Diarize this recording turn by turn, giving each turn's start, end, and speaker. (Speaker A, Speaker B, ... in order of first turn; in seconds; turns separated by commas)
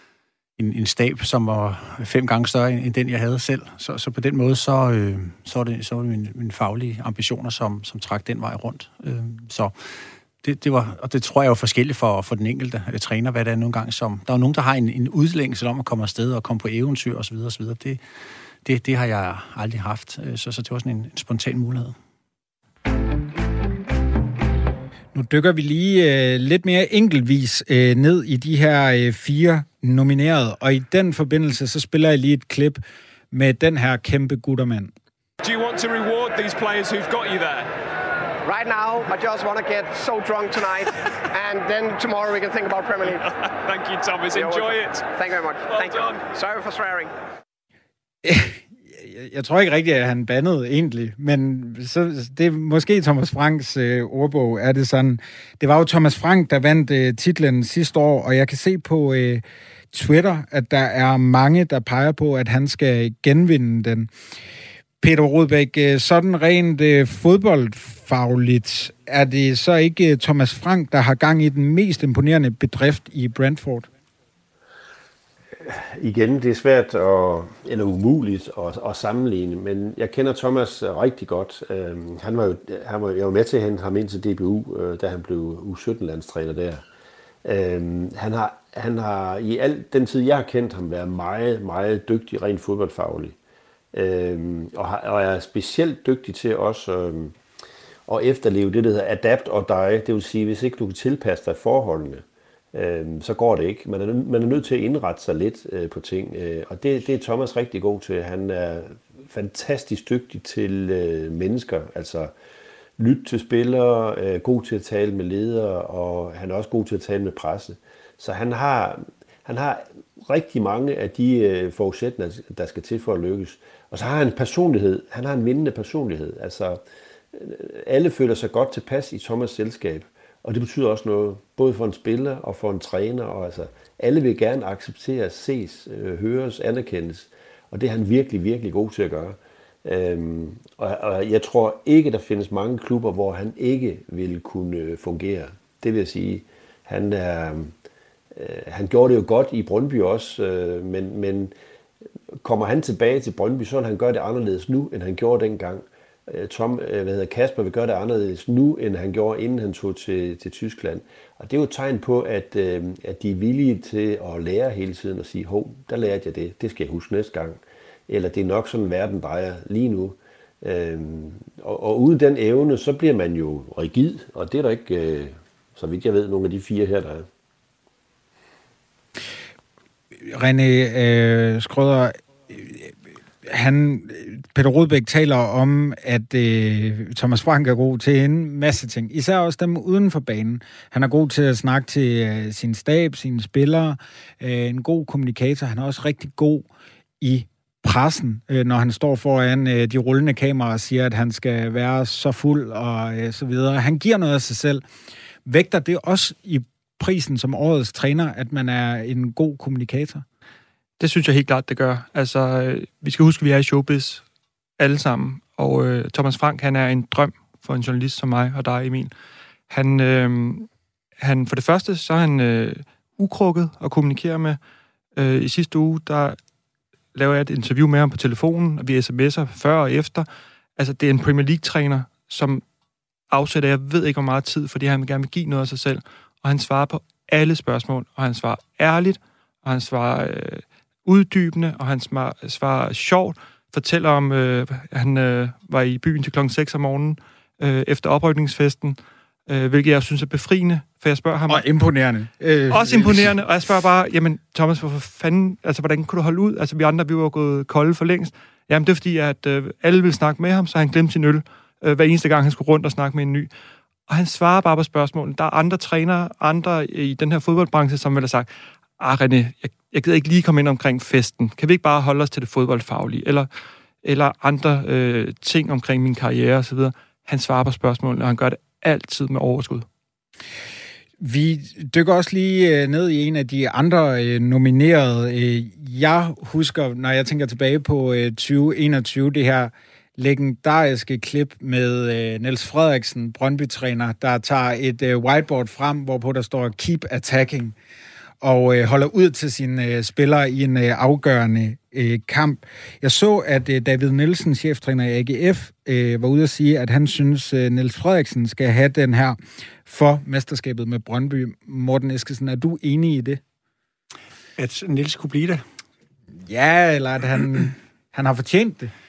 Speaker A: 0.6-9.7, Speaker A: 10.4-18.0, Speaker A: 18.6-21.9, Speaker B: 25.1-34.9, Speaker C: 35.4-37.7, Speaker D: 38.4-43.3, Speaker C: 43.3-45.1, Speaker D: 44.3-47.1, Speaker C: 45.7-46.2, Speaker B: 48.2-64.1, Speaker B: 65.0-73.9, Speaker E: 75.6-86.8, Speaker E: 87.5-93.4, Speaker E: 93.9-97.4, Speaker E: 98.1-112.3, Speaker E: 113.0-126.8, Speaker E: 127.3-147.7, Speaker E: 148.3-151.5, Speaker E: 152.4-177.3, Speaker B: 180.2-196.7, Speaker B: 197.2-204.8, Speaker B: 205.4-210.2, Speaker F: 211.0-214.2, Speaker F: 214.8-219.1, Speaker F: 219.7-220.7, Speaker F: 221.2-224.6, Speaker F: 225.2-226.4, Speaker F: 227.1-230.3, Speaker F: 230.8-232.6, Speaker F: 233.3-251.7, Speaker B: 251.5-253.3, Speaker F: 252.7-263.5, Speaker F: 264.1-273.5, Speaker F: 274.0-279.9, Speaker B: 281.2-297.8, Speaker B: 298.4-313.4, Speaker A: 314.6-315.6, Speaker B: 316.5-318.9